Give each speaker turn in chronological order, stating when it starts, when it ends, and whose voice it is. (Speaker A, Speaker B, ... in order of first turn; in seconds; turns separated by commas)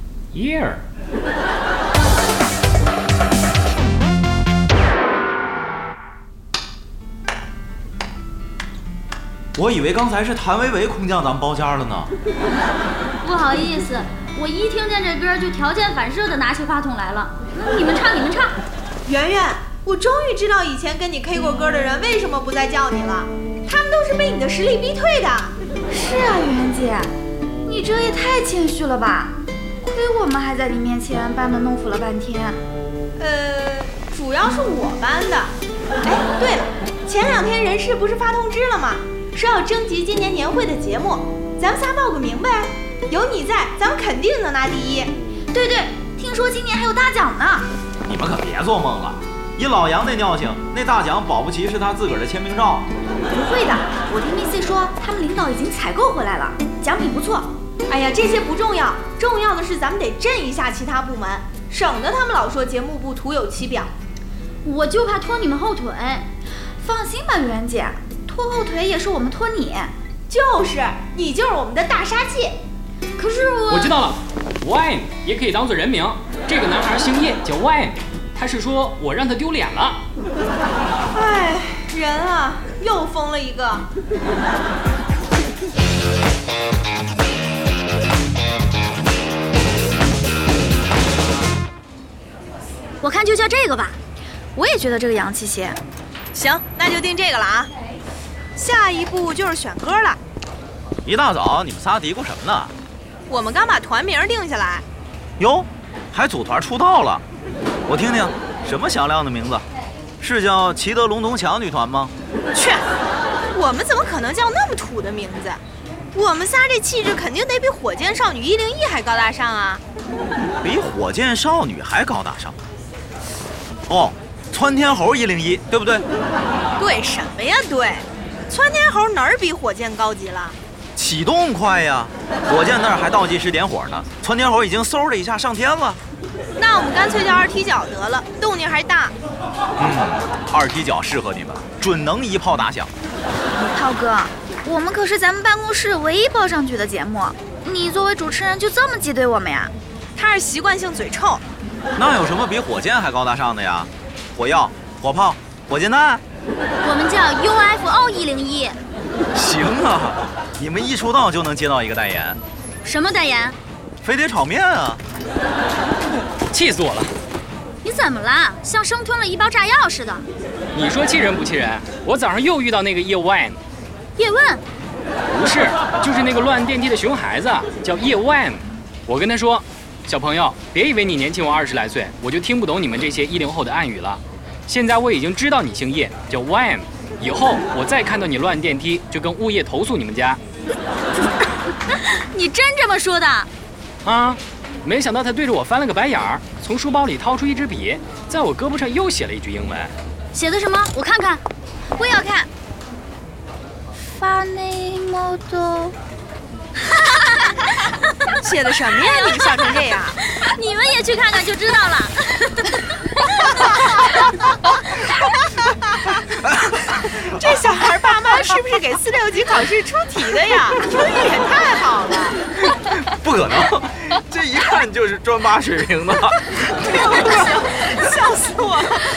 Speaker A: 0.3-0.8, Speaker B: 9.6-12.1, Speaker C: 13.2-18.6, Speaker D: 19.1-25.5, Speaker E: 25.9-27.1, Speaker E: 27.6-32.6, Speaker D: 33.2-35.5, Speaker D: 36.0-45.1, Speaker E: 45.5-47.7, Speaker B: 48.1-52.9, Speaker E: 53.3-57.5, Speaker D: 57.9-63.9, Speaker C: 64.6-66.3, Speaker E: 66.8-69.9, Speaker D: 70.3-72.6, Speaker C: 73.2-74.0, Speaker A: 73.7-80.0, Speaker D: 81.2-83.8, Speaker C: 93.0-94.0, Speaker E: 94.6-95.8, Speaker D: 96.3-97.7, Speaker D: 98.6-100.2, Speaker B: 101.0-102.7, Speaker D: 103.3-104.8, Speaker B: 105.4-107.2, Speaker B: 107.9-109.6, Speaker B: 110.2-112.1, Speaker D: 112.5-112.8, Speaker D: 113.5-115.6, Speaker D: 116.1-119.8, Speaker B: 120.6-122.5, Speaker B: 123.9-126.1, Speaker D: 126.8-130.6, Speaker B: 131.0-136.0, Speaker D: 136.6-139.1, Speaker B: 139.8-142.9, Speaker E: 143.6-149.7, Speaker D: 150.2-151.4, Speaker B: 152.0-156.2, Speaker C: 156.8-158.8, Speaker B: 159.3-162.4, Speaker C: 162.8-163.6, Speaker B: 164.0-165.0, Speaker A: 166.5-167.1, Speaker C: 167.8-170.2, Speaker A: 170.7-173.6, Speaker C: 174.2-174.6, Speaker A: 175.3-190.4, Speaker C: 191.9-193.5, Speaker A: 194.0-199.9, Speaker C: 200.3-201.4, Speaker E: 202.0-202.5, Speaker E: 204.2-206.0, Speaker C: 206.9-207.8, Speaker D: 208.5-210.1, Speaker C: 209.0-214.5, Speaker D: 217.4-222.4, Speaker B: 222.8-226.5, Speaker D: 227.5-228.9